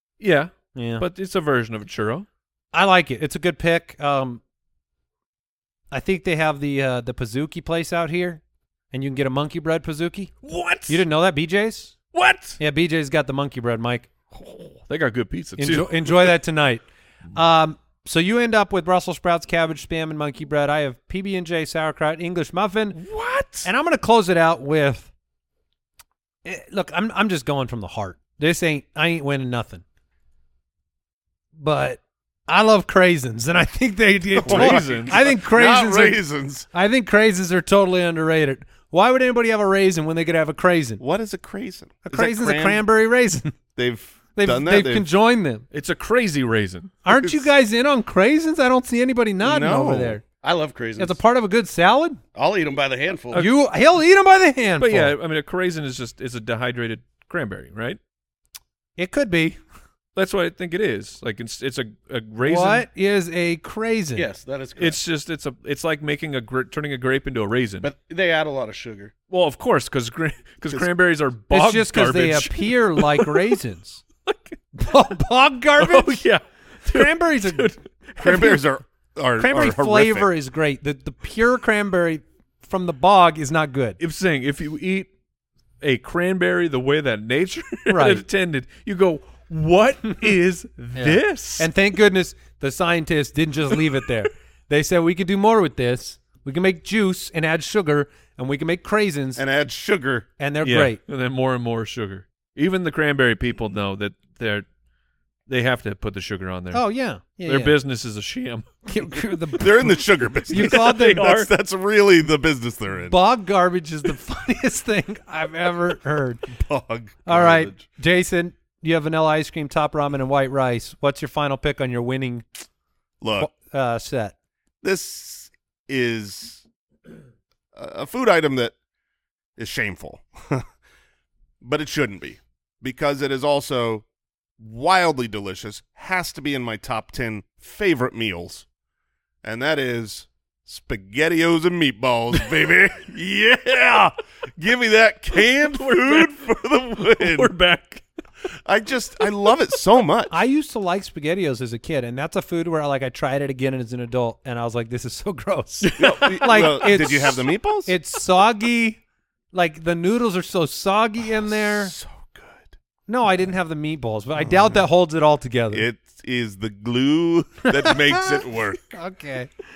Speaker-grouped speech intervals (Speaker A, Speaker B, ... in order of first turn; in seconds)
Speaker A: 0.2-2.3, 10.4-11.0, 12.1-12.6, 14.3-16.3, 22.9-23.7, 34.5-35.3, 45.7-47.0, 54.8-58.0, 60.1-62.9, 64.8-67.9, 69.3-73.6, 74.3-74.7, 75.8-78.6, 84.0-85.1, 85.8-91.7, 100.6-104.7, 105.5-106.8, 107.5-108.9, 110.5-111.5, 145.5-148.0, 155.8-157.3
Speaker B: 0.8-1.1, 2.7-4.4, 5.9-10.3, 10.9-11.9, 12.6-14.1, 15.6-16.8, 17.4-23.0, 23.6-25.1, 26.4-29.8, 31.6-41.0, 42.0-43.5, 44.4-45.6, 47.0-50.2, 51.0-52.2, 53.3-55.1, 59.0-59.6, 62.4-64.3, 71.5-74.0, 74.8-76.2, 76.9-77.7, 79.4-84.0, 87.9-88.2, 91.0-99.4, 100.4-101.0, 106.7-107.8, 108.9-111.3, 113.1-116.4, 117.2-122.5, 123.4-124.4, 150.3-159.0, 159.5-161.9, 163.1-165.9, 167.7-169.5
Speaker C: 34.4-36.7, 41.0-42.8, 43.8-45.1, 49.4-50.2, 78.2-80.3, 99.4-100.3, 109.6-113.2, 116.5-117.8, 123.2-123.5, 124.8-126.7, 127.7-128.8, 129.6-130.7, 131.6-134.1, 134.6-138.7, 139.4-147.5, 148.7-150.3, 156.0-157.9, 161.4-162.7, 164.4-164.8, 165.7-168.8
Speaker D: 50.4-51.2, 52.4-53.4, 64.2-65.0, 67.8-69.1